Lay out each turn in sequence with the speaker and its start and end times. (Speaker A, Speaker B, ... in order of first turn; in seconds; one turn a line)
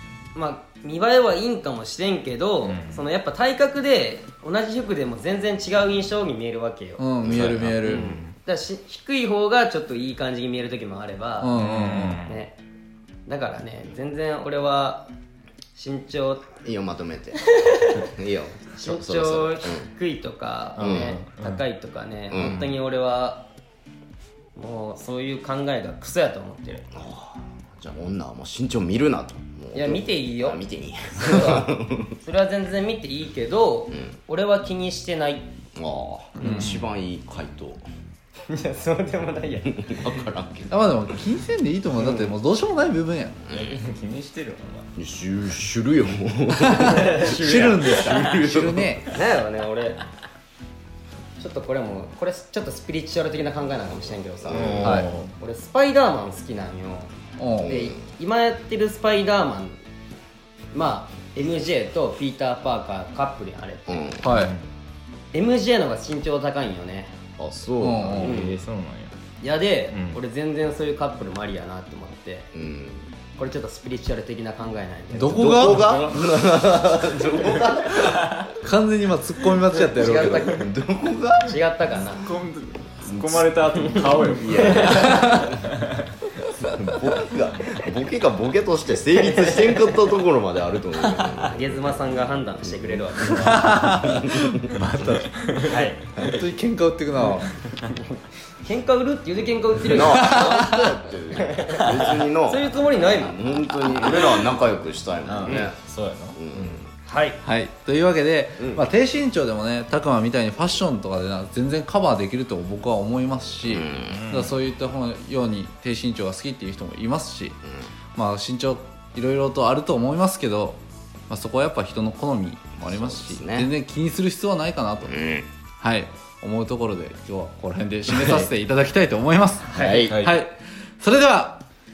Speaker A: 0.3-7.0
Speaker B: 2.6-3.1
Speaker C: 7.0-8.1
Speaker D: 7.2-8.1
Speaker B: 7.3-8.3
Speaker A: 7.9-11.6
Speaker C: 11.4-12.2
Speaker B: 11.6-12.4
Speaker A: 12.2-12.6
Speaker A: 13.3-15.1
Speaker A: 15.8-16.5
Speaker D: 16.6-19.9
Speaker A: 17.5-18.0
Speaker A: 18.7-23.5
Speaker D: 20.8-21.2
Speaker B: 20.8-21.6
Speaker D: 22.3-22.7
Speaker A: 24.6-26.9
Speaker D: 26.9-32.1
Speaker A: 29.7-30.6
Speaker A: 31.2-35.5
Speaker D: 35.8-37.8
Speaker A: 36.4-36.7
Speaker C: 36.4-36.8
Speaker A: 38.5-40.1
Speaker D: 39.8-40.8
Speaker C: 40.7-43.4
Speaker D: 43.5-43.8
Speaker B: 43.5-44.9
Speaker D: 45.0-49.0
Speaker C: 46.6-49.0
Speaker B: 47.2-48.4
Speaker A: 49.1-50.0
Speaker A: 51.4-57.1
Speaker D: 54.4-55.1
Speaker B: 54.5-55.3
Speaker C: 54.8-55.1
Speaker C: 57.4-57.8
Speaker D: 57.6-58.0
Speaker A: 57.6-59.8
Speaker A: 60.7-64.2
Speaker D: 63.9-64.3
Speaker C: 64.2-64.5
Speaker B: 64.3-64.7
Speaker A: 65.3-67.1
Speaker D: 67.4-68.5
Speaker C: 67.8-68.4
Speaker A: 68.2-68.6
Speaker B: 68.2-69.1
Speaker A: 69.4-72.5
Speaker B: 69.9-70.2
Speaker D: 72.5-73.1
Speaker A: 73.4-75.5
Speaker C: 75.1-75.9
Speaker D: 75.3-78.4
Speaker B: 75.7-76.5
Speaker B: 78.0-78.5
Speaker C: 78.6-80.5
Speaker A: 79.7-80.7
Speaker D: 80.0-81.6
Speaker A: 81.5-82.3
Speaker B: 82.1-85.8
Speaker D: 83.0-85.5
Speaker A: 84.5-85.2
Speaker C: 84.9-85.5
Speaker D: 86.6-94.7
Speaker A: 89.2-90.0
Speaker A: 91.4-93.8
Speaker C: 93.4-97.5
Speaker B: 95.5-95.8
Speaker A: 95.7-96.0
Speaker A: 97.2-98.0
Speaker A: 98.6-100.8
Speaker D: 99.9-105.8
Speaker C: 100.1-100.8
Speaker A: 101.4-104.5
Speaker B: 105.2-106.4
Speaker D: 106.3-106.9
Speaker A: 107.1-107.4
Speaker C: 107.4-117.6
Speaker D: 113.7-114.3
Speaker B: 114.1-114.5
Speaker C: 118.2-120.8
Speaker C: 121.3-125.1
Speaker D: 122.9-123.7
Speaker D: 125.1-125.5
Speaker C: 125.8-131.6
Speaker D: 129.8-130.2
Speaker B: 129.8-130.4